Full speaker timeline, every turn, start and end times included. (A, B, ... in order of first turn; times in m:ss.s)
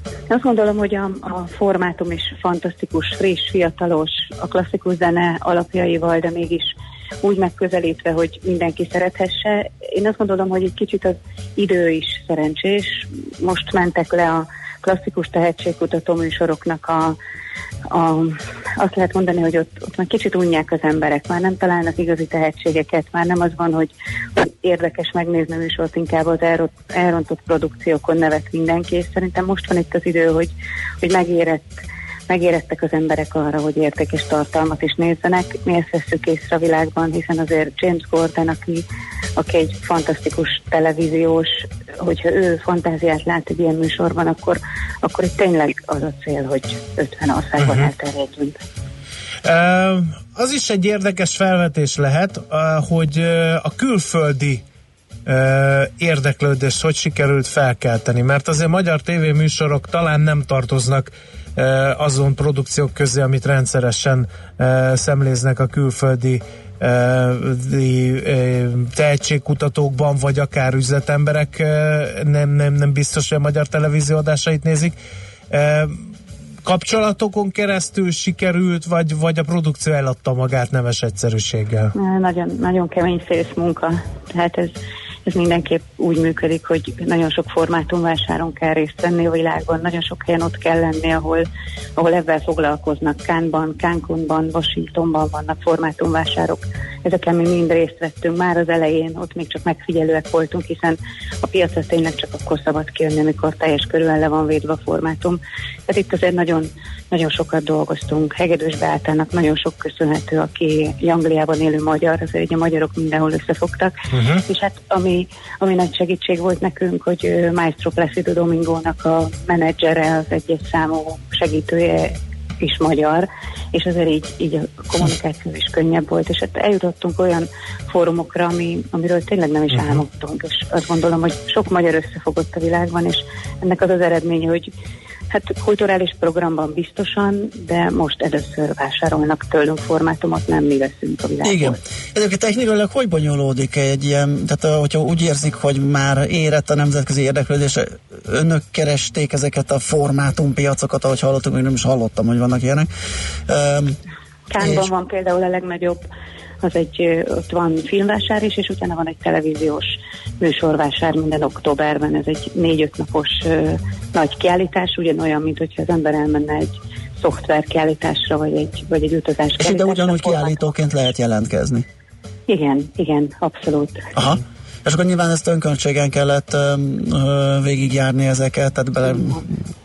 0:00.3-0:17.2 A
0:17.9-0:38.8 A
0:39.4-0:48.5 A
0:47.6-0:47.9 B
0:49.4-0:54.6 B
0:55.2-1:15.0 B
1:15.5-1:16.1 B
1:16.6-1:21.9 B
1:21.9-1:24.7 A
1:25.2-1:31.4 A
1:32.0-2:14.7 A
1:54.1-1:54.4 B
2:15.3-2:21.8 A
2:21.4-2:32.9 C
2:33.5-2:34.0 C
2:34.5-2:36.0 A
2:34.6-2:34.9 C
2:36.6-2:50.7 A
2:49.6-2:51.8 C
2:52.5-2:54.1 A
2:54.2-2:59.5 C